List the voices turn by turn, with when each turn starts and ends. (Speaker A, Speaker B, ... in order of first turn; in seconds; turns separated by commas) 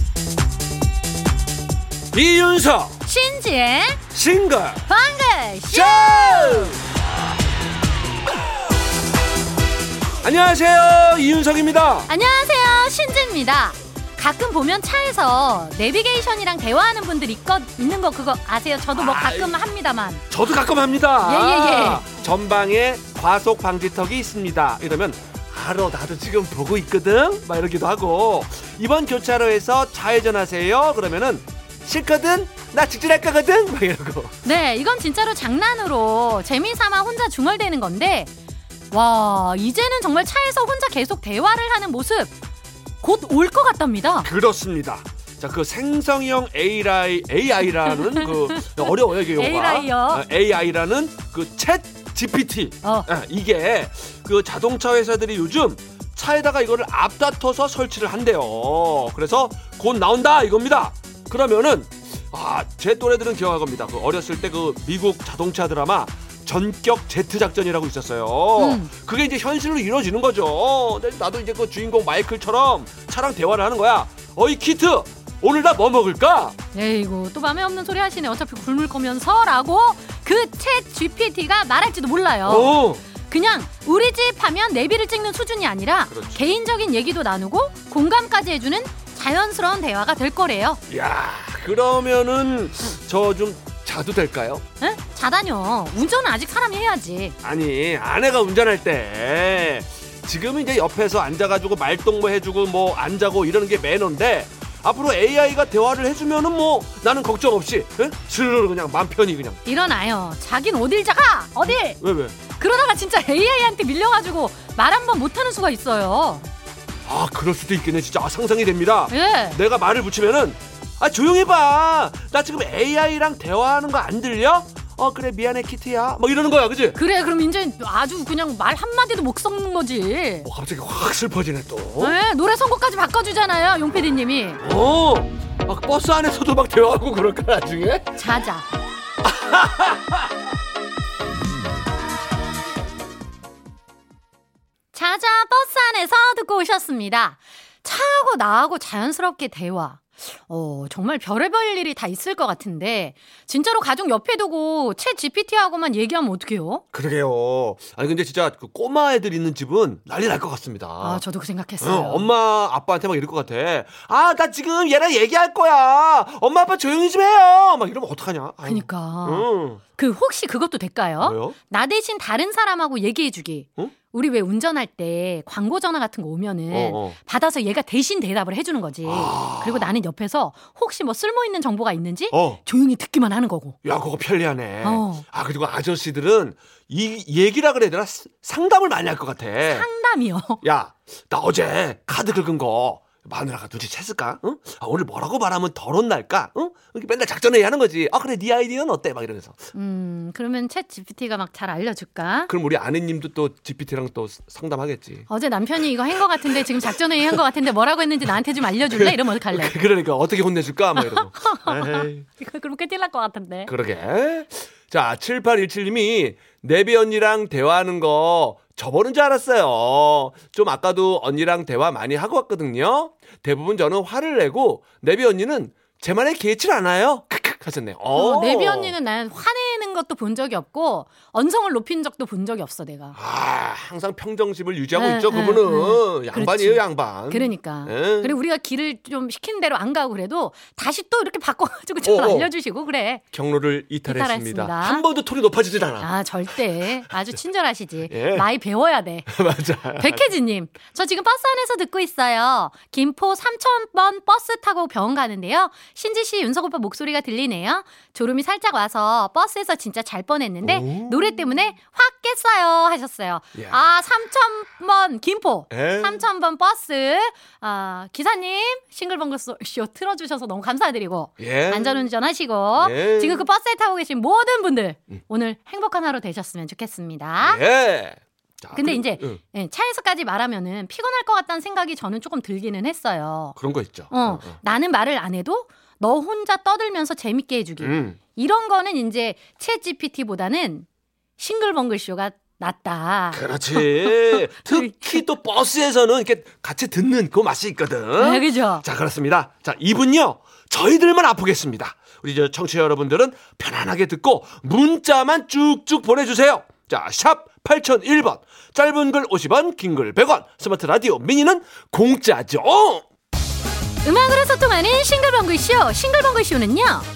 Speaker A: 2.1-3.0, Speaker B: 3.0-4.0, Speaker A: 4.1-4.9, Speaker B: 4.9-6.8, Speaker A: 5.7-6.8, Speaker A: 10.2-12.1, Speaker B: 12.1-20.2, Speaker A: 18.9-19.6, Speaker A: 20.3-34.4, Speaker B: 21.2-22.1, Speaker B: 34.4-38.3, Speaker B: 38.9-42.3, Speaker B: 43.0-44.3, Speaker A: 44.2-76.5, Speaker B: 48.2-50.2, Speaker B: 52.8-53.1, Speaker B: 68.6-68.9, Speaker B: 76.7-90.8, Speaker A: 82.5-83.0, Speaker A: 86.1-86.4, Speaker A: 90.9-94.6, Speaker B: 94.8-97.4, Speaker A: 97.4-109.6, Speaker B: 109.7-112.0, Speaker A: 111.7-112.4, Speaker B: 112.6-116.5, Speaker A: 117.1-127.0, Speaker B: 119.1-119.6, Speaker B: 127.0-130.5, Speaker A: 130.4-132.2, Speaker B: 132.0-134.6, Speaker A: 134.6-138.2, Speaker B: 138.2-138.7, Speaker A: 139.2-140.2, Speaker B: 144.9-156.8, Speaker A: 156.9-161.2, Speaker B: 161.0-162.3, Speaker A: 161.8-169.8, Speaker B: 168.7-183.8, Speaker A: 171.2-171.6, Speaker A: 176.7-177.2, Speaker A: 179.0-180.0, Speaker A: 182.3-182.6, Speaker A: 183.8-189.9, Speaker B: 184.8-185.2, Speaker B: 189.7-190.6, Speaker A: 190.6-199.6, Speaker B: 199.7-202.5, Speaker A: 202.5-205.3, Speaker B: 205.3-209.7, Speaker A: 206.4-207.4, Speaker A: 208.9-212.3, Speaker B: 211.0-213.7, Speaker A: 213.7-228.9, Speaker B: 228.1-233.2, Speaker A: 233.2-238.3, Speaker B: 234.9-243.2, Speaker A: 242.1-242.5, Speaker A: 243.3-246.1, Speaker B: 244.1-245.1, Speaker B: 246.0-249.3, Speaker A: 248.1-248.5, Speaker A: 249.3-250.3, Speaker B: 250.0-277.6, Speaker A: 260.6-261.2, Speaker A: 263.6-263.8, Speaker A: 265.7-266.2, Speaker A: 271.4-272.0, Speaker A: 272.8-273.5, Speaker A: 277.4-279.4, Speaker B: 278.7-283.6, Speaker A: 283.6-284.6, Speaker B: 284.1-290.9, Speaker A: 287.8-288.2, Speaker B: 291.4-295.3, Speaker A: 293.3-313.1, Speaker B: 298.2-298.8, Speaker B: 314.0-317.1